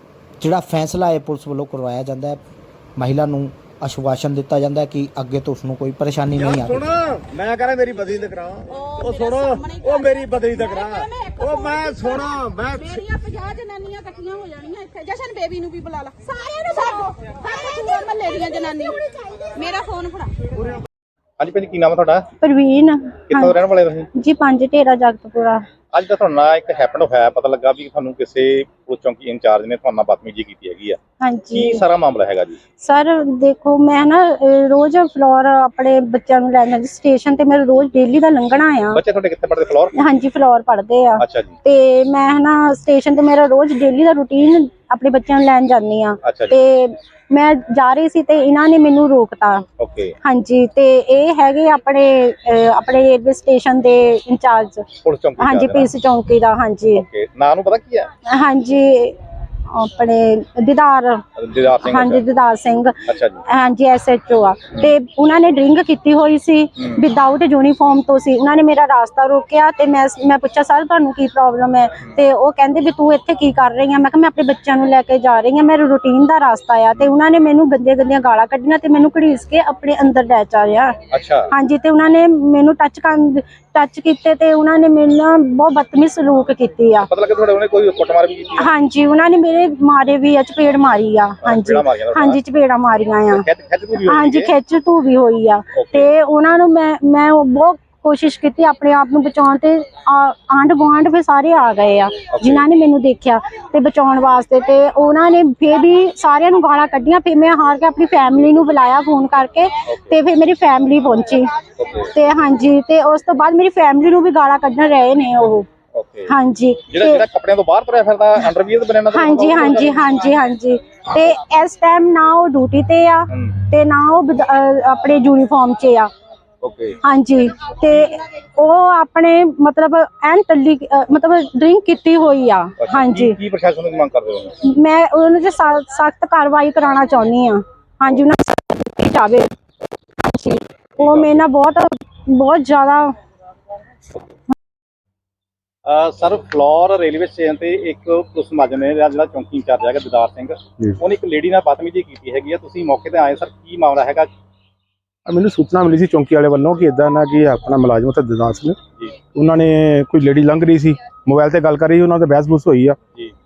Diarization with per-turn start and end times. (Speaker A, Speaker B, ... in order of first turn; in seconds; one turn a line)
Speaker A: 0.4-2.4
Speaker A: 3.0-6.9
Speaker B: 6.4-13.0
Speaker C: 8.7-20.5
Speaker D: 21.4-22.3
Speaker E: 22.4-23.6
Speaker D: 23.3-24.1
Speaker E: 24.1-25.6
Speaker D: 25.9-31.0
Speaker E: 31.2-31.8
Speaker D: 31.5-32.6
Speaker E: 32.8-39.0
Speaker D: 38.9-40.2
Speaker E: 39.9-49.6
Speaker D: 41.2-41.5
Speaker D: 46.2-46.6
Speaker D: 49.8-50.1
Speaker E: 50.2-54.9
Speaker D: 55.0-55.9
Speaker E: 55.4-57.0
Speaker D: 56.9-58.1
Speaker E: 58.3-59.2
Speaker E: 59.7-61.3
Speaker D: 61.4-62.2
Speaker E: 61.8-87.1
Speaker D: 63.0-63.4
Speaker D: 81.1-81.5
Speaker D: 87.0-88.7
Speaker E: 88.6-93.4
Speaker D: 91.4-92.4
Speaker D: 93.3-94.5
Speaker E: 94.0-111.5
Speaker D: 95.7-96.1
Speaker D: 102.3-102.7
Speaker D: 109.9-110.2
Speaker D: 111.8-112.1
Speaker E: 112.1-115.7
Speaker D: 115.9-116.3
Speaker E: 116.3-117.2
Speaker D: 116.9-120.0
Speaker E: 119.1-126.1
Speaker D: 126.6-127.0
Speaker E: 127.0-133.4
Speaker D: 132.8-134.6
Speaker E: 134.6-139.5
Speaker E: 140.2-143.1
Speaker D: 141.0-141.3
Speaker D: 145.8-154.3
Speaker F: 155.2-158.8
Speaker F: 159.3-163.0